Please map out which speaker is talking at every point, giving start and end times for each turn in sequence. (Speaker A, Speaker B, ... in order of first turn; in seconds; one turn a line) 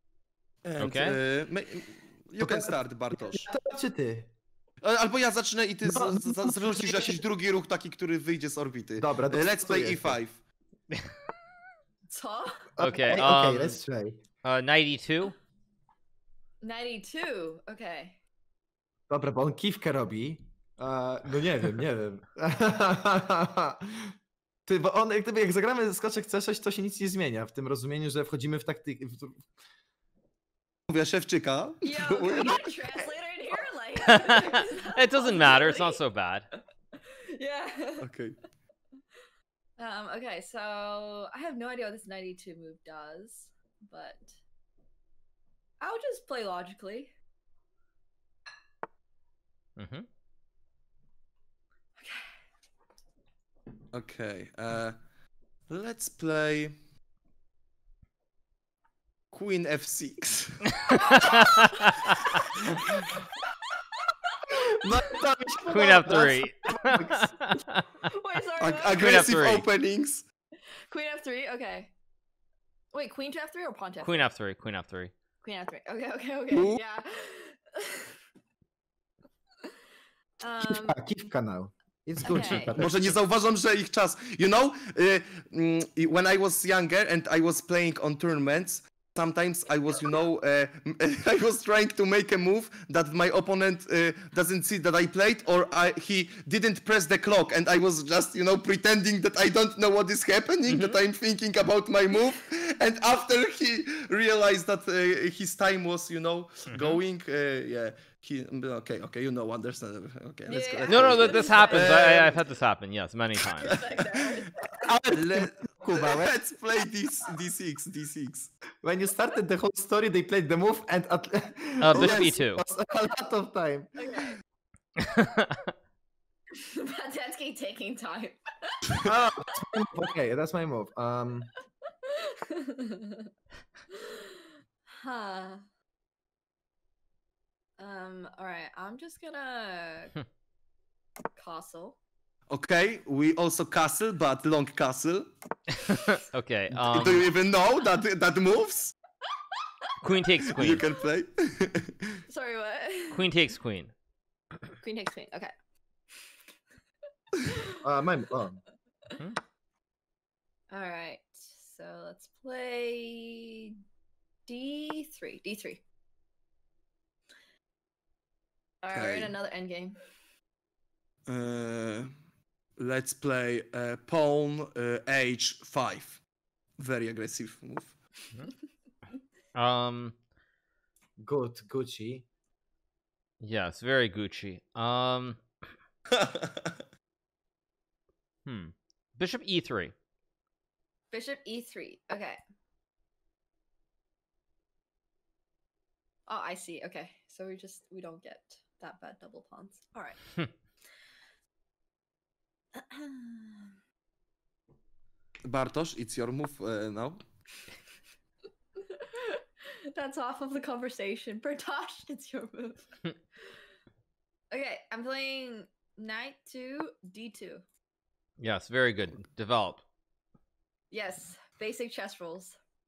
Speaker A: 0.6-3.5
Speaker B: 0.8-1.2
Speaker C: 2.4-4.3
Speaker A: 4.8-10.4
Speaker C: 5.8-7.2
Speaker C: 9.0-10.2
Speaker D: 12.1-12.7
Speaker C: 12.8-14.2
Speaker B: 12.8-13.8
Speaker B: 14.4-15.3
Speaker D: 16.6-18.2
Speaker C: 19.1-29.5
Speaker A: 30.9-32.7
Speaker D: 31.8-36.0
Speaker B: 34.1-36.5
Speaker D: 37.3-38.0
Speaker A: 38.0-38.4
Speaker D: 39.8-44.4
Speaker D: 45.8-47.1
Speaker B: 49.8-50.0
Speaker D: 52.0-52.4
Speaker A: 53.9-55.0
Speaker A: 55.7-56.7
Speaker A: 59.3-61.8
Speaker A: 62.4-63.1
Speaker D: 64.0-65.2
Speaker C: 64.5-67.5
Speaker B: 65.7-67.8
Speaker D: 68.0-69.3
Speaker A: 68.6-70.2
Speaker B: 68.9-69.7
Speaker D: 70.9-71.9
Speaker D: 72.9-74.3
Speaker B: 74.0-75.1
Speaker D: 75.4-78.1
Speaker D: 80.4-81.0
Speaker C: 80.6-83.2
Speaker D: 82.2-82.8
Speaker A: 82.8-112.4
Speaker B: 100.7-101.0
Speaker B: 106.7-107.0
Speaker D: 110.5-112.1
Speaker B: 110.9-113.8
Speaker D: 113.6-114.8
Speaker A: 113.6-114.2
Speaker C: 114.8-116.3
Speaker A: 115.1-118.5
Speaker C: 118.8-124.0
Speaker B: 121.8-122.6
Speaker A: 121.9-122.3
Speaker D: 124.0-124.4
Speaker B: 125.0-125.7
Speaker D: 126.6-129.0
Speaker C: 129.0-131.5
Speaker D: 132.0-133.3
Speaker D: 133.9-135.7
Speaker D: 137.8-140.2
Speaker D: 141.3-142.0
Speaker A: 142.5-145.3
Speaker B: 145.9-147.3
Speaker A: 146.7-148.9
Speaker B: 150.0-150.8
Speaker A: 150.4-152.2
Speaker D: 152.3-153.3
Speaker B: 153.1-153.9
Speaker D: 154.8-155.5
Speaker C: 157.8-158.6
Speaker D: 160.7-163.7
Speaker D: 164.4-165.8
Speaker D: 168.8-170.0
Speaker A: 168.9-169.3
Speaker A: 171.2-172.1
Speaker A: 172.8-176.2
Speaker A: 176.8-178.0
Speaker B: 179.5-180.1
Speaker C: 181.2-182.2
Speaker B: 183.4-185.4
Speaker A: 186.1-186.7
Speaker B: 188.4-189.9
Speaker D: 191.1-192.4
Speaker D: 196.3-200.2
Speaker D: 202.7-203.7
Speaker A: 205.4-207.2
Speaker D: 208.9-213.0
Speaker D: 214.5-217.6
Speaker B: 218.4-219.8
Speaker D: 220.9-222.6